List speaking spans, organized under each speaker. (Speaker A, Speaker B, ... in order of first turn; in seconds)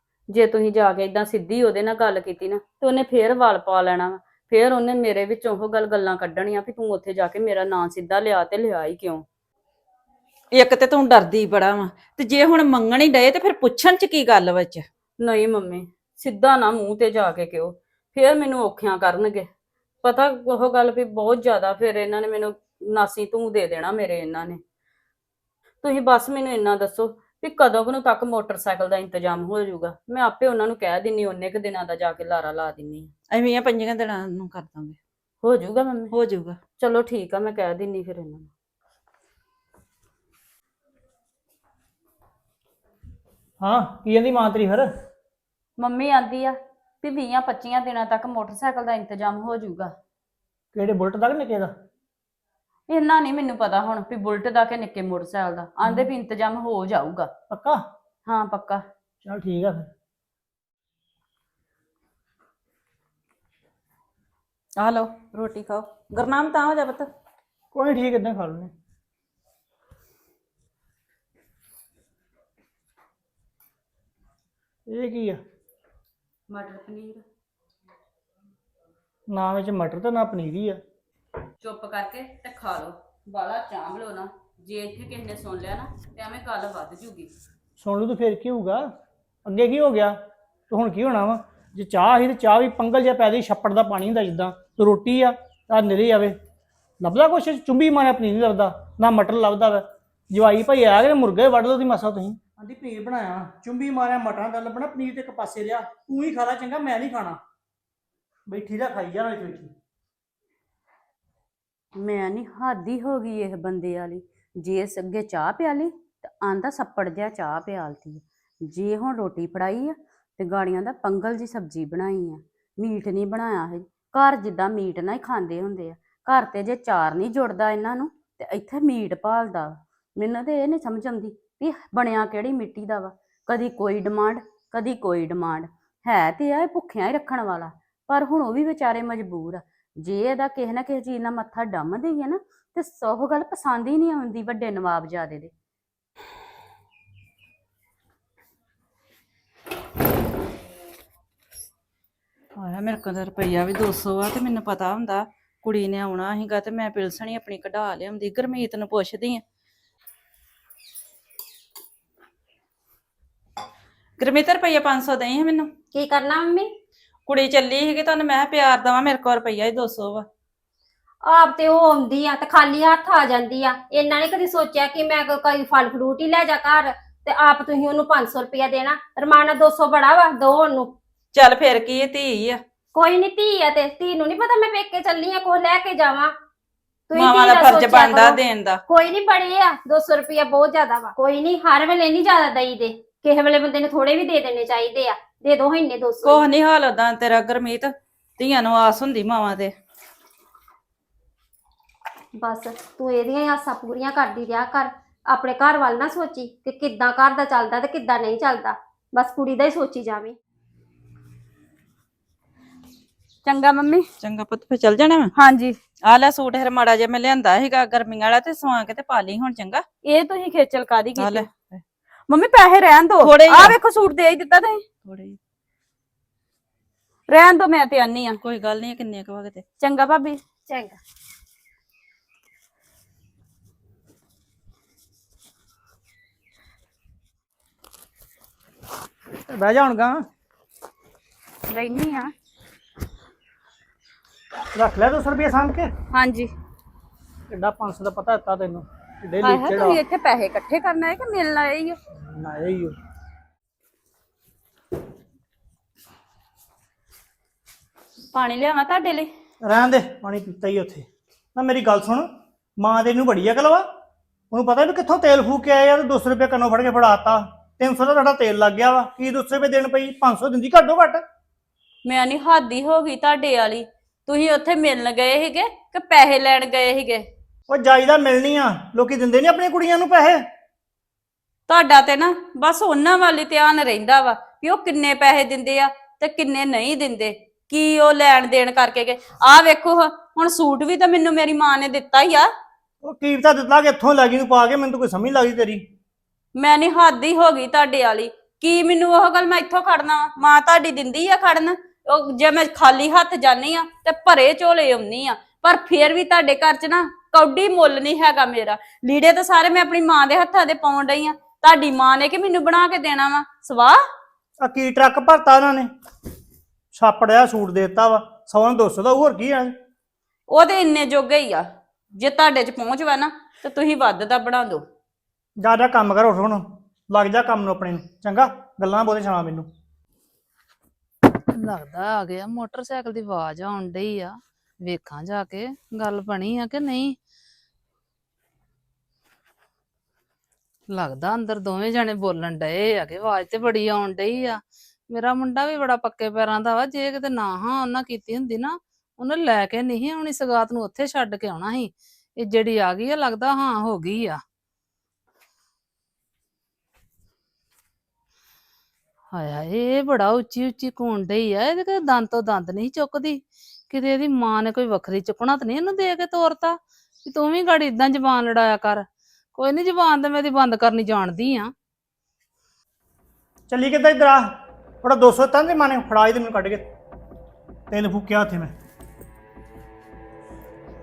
Speaker A: 0.3-9.2, 15.2-19.5, 20.0-24.6, 25.8-33.1, 35.4-36.1, 36.8-38.5, 45.8-49.9, 52.9-57.3, 58.2-58.8, 76.5-77.2, 81.6-87.3, 112.0-145.5, 213.4-214.1, 215.3-215.8, 220.0-221.5, 222.3-224.8, 227.3-228.4, 229.8-230.4, 241.7-242.3, 246.1-246.5, 249.4-252.0, 258.3-259.3, 272.0-277.2, 281.7-292.5, 296.6-314.0, 320.5-324.8
Speaker B: 10.5-14.8, 33.3-35.0, 36.1-36.6, 64.8-67.1, 152.6-159.4, 164.2-165.7, 167.3-170.2, 181.3-182.6, 187.1-188.8, 196.2-199.7, 214.2-215.3, 216.0-219.8, 221.2-221.8, 223.2-223.8, 225.1-225.4, 228.4-229.6
Speaker C: 43.6-44.9, 50.7-51.7, 57.5-57.8, 59.2-59.9, 67.7-68.7, 74.9-75.4, 79.3-80.8, 87.8-88.8, 89.5-90.2, 90.7-96.3, 97.0-107.4, 108.5-109.7, 239.5-240.2, 244.7-245.9, 247.5-250.0, 252.2-252.9, 259.6-262.3, 262.8-263.8, 264.5-271.2, 277.7-280.4, 293.0-295.8, 314.6-315.9, 316.9-319.7, 325.6-329.7, 373.7-374.4, 375.0-376.8, 377.9-378.7
Speaker D: 165.9-166.7, 171.2-180.9, 182.9-186.3, 187.1-196.4, 202.4-210.3, 230.7-231.0
Speaker E: 331.3-337.1, 340.9-354.4, 359.3-371.7